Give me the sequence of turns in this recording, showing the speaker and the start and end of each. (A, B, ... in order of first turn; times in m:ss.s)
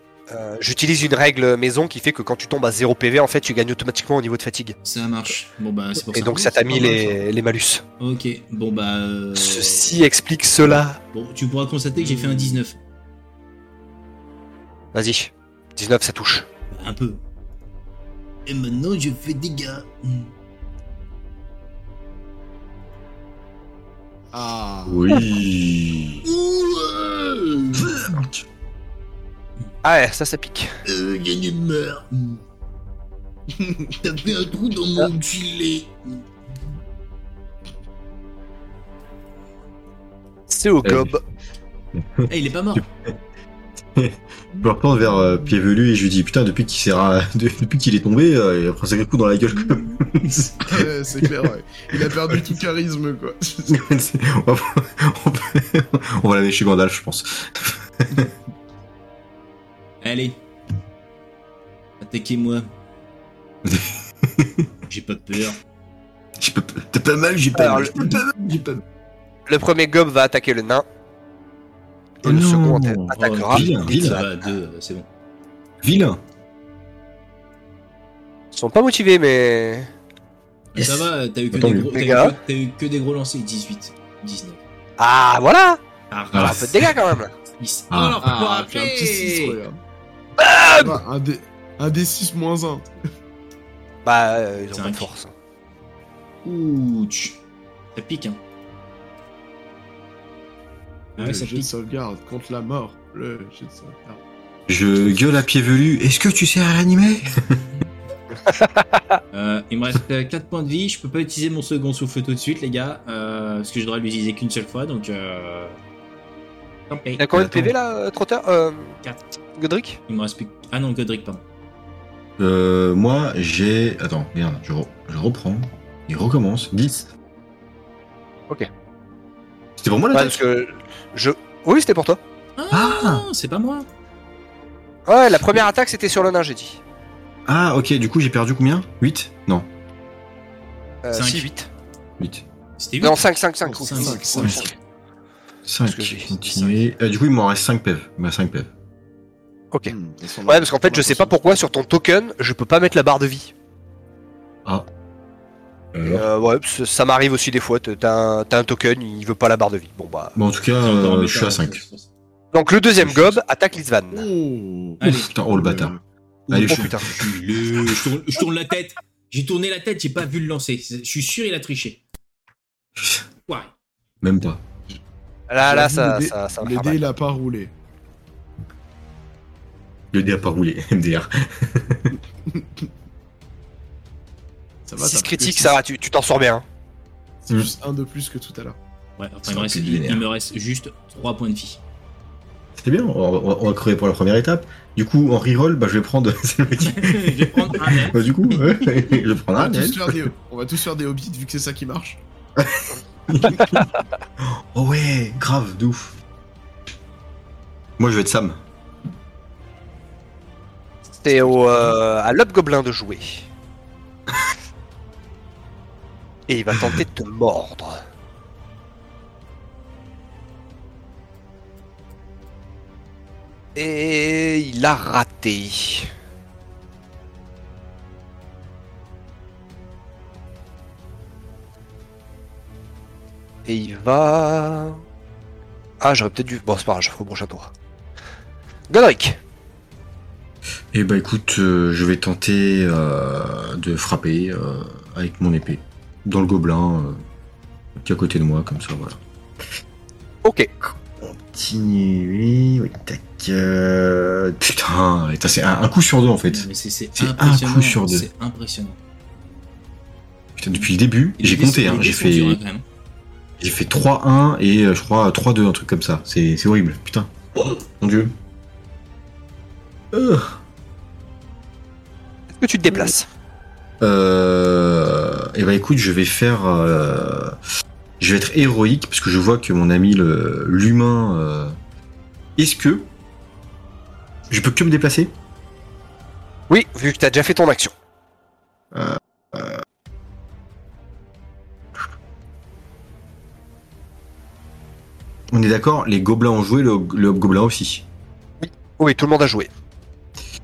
0:00.3-0:04.8 A
0:04.8-0:07.2 B
0:06.1-0:07.8 A
0:08.0-0:10.0 B
0:09.4-0:11.0 A
0:10.7-0:12.8 B
0:12.0-0:12.6 C
0:14.9-0:16.5 A
0:16.7-0:17.2 B
0:18.5-0:20.3 B
0:24.3-0:25.1 C
0:24.9-0:26.3 D
0:26.2-0:28.0 B
0:27.7-0:28.5 D
0:29.8-0:30.7 A
0:30.8-0:32.4 B
0:33.6-0:34.4 C
0:34.0-0:36.2 B
0:40.5-0:41.2 A
0:40.8-0:41.1 D
0:42.0-0:43.1 D
0:42.3-0:42.9 B
0:44.0-0:50.9 D
0:49.5-0:50.5 B
0:50.6-0:53.9 C
0:52.0-0:52.5 D
0:53.7-0:58.3 D
1:00.0-1:00.4 B
1:02.0-1:02.7 B
1:03.6-1:04.7 D
1:04.9-1:05.6 B
1:06.4-1:08.8 D
1:07.6-1:08.0 A
1:09.5-1:10.8 A
1:12.2-1:14.3 A
1:12.2-1:14.2 D
1:13.2-1:15.1 B
1:15.8-1:16.2 D
1:18.5-1:19.9 A
1:20.7-1:24.6 B
1:20.8-1:21.9 D
1:21.9-1:22.4 A
1:25.0-1:25.8 A
1:26.1-1:26.8 B
1:26.3-1:27.0 D
1:26.3-1:27.3 A
1:27.5-1:29.6 B
1:27.9-1:28.3 D
1:28.2-1:29.8 C
1:30.4-1:31.0 A
1:30.8-1:32.9 C
1:34.0-1:35.3 A
1:34.7-1:35.1 B
1:36.4-1:37.4 B
1:38.0-1:38.4 B
1:41.2-1:41.7 B
1:41.2-1:44.2 C
1:44.7-1:47.6 D
1:48.5-1:48.8 A
1:49.3-1:55.8 B
1:56.9-1:57.6 B
1:57.2-1:59.0 A
1:57.3-1:57.7 D
1:59.6-2:00.0 A
2:00.1-2:01.4 B
2:02.4-2:07.1 D
2:09.8-2:10.4 D
2:10.1-2:12.2 A
2:12.6-2:13.9 B
2:12.7-2:13.3 D
2:15.1-2:16.8 A
2:17.5-2:19.7 D
2:21.0-2:21.7 A
2:21.1-2:21.5 B
2:22.2-2:22.4 D
2:22.8-2:23.2 B
2:23.0-2:24.7 A
2:23.6-2:24.7 C
2:23.8-2:24.8 B
2:25.7-2:28.7 D
2:25.8-2:26.3 A
2:26.4-2:26.9 B
2:29.9-2:31.7 C
2:30.5-2:33.5 A
2:35.9-2:36.3 D
2:36.0-2:40.4 A
2:40.4-2:41.8 D
2:40.8-2:42.1 B
2:42.5-2:44.3 A
2:43.0-2:43.4 D
2:44.1-2:46.0 C
2:45.0-2:45.3 B
2:45.0-2:46.0 D
2:46.5-2:52.0 B
2:46.5-2:48.0 D
2:46.6-2:47.1 A
2:53.0-2:53.2 D
2:53.5-2:53.7 B
2:54.2-2:54.6 D
2:55.5-2:57.0 A
2:55.6-2:57.7 C
3:00.1-3:02.2 D
3:02.5-3:02.9 C
3:04.9-3:05.8 C
3:05.0-3:06.6 A
3:07.4-3:08.8 C
3:09.2-3:11.8 B
3:09.4-3:10.2 D
3:12.8-3:20.3 D
3:16.8-3:18.8 B
3:19.6-3:22.2 C
3:22.6-3:23.9 D
3:23.6-3:23.8 A
3:24.4-3:26.1 D
3:28.0-3:28.6 D
3:31.2-3:33.5 A
3:36.5-3:38.0 A
3:36.8-3:37.0 D
3:43.8-3:46.1 A
3:53.7-3:55.0 A
3:56.0-3:57.7 A
3:58.9-3:59.4 A
4:00.9-4:07.2 D
4:08.0-4:09.2 D
4:10.4-4:10.7 A
4:10.9-4:18.3 D
4:16.5-4:19.0 B
4:20.6-4:22.6 D
4:20.7-4:22.8 B
4:23.6-4:28.3 D
4:30.1-4:30.6 D
4:32.6-4:33.3 A
4:34.0-4:37.6 D
4:38.2-4:41.8 D
4:42.6-4:43.1 D
4:44.5-4:45.3 D
4:46.7-4:47.9 A
4:48.9-4:49.8 D
4:55.5-4:58.1 D
4:58.6-4:59.7 A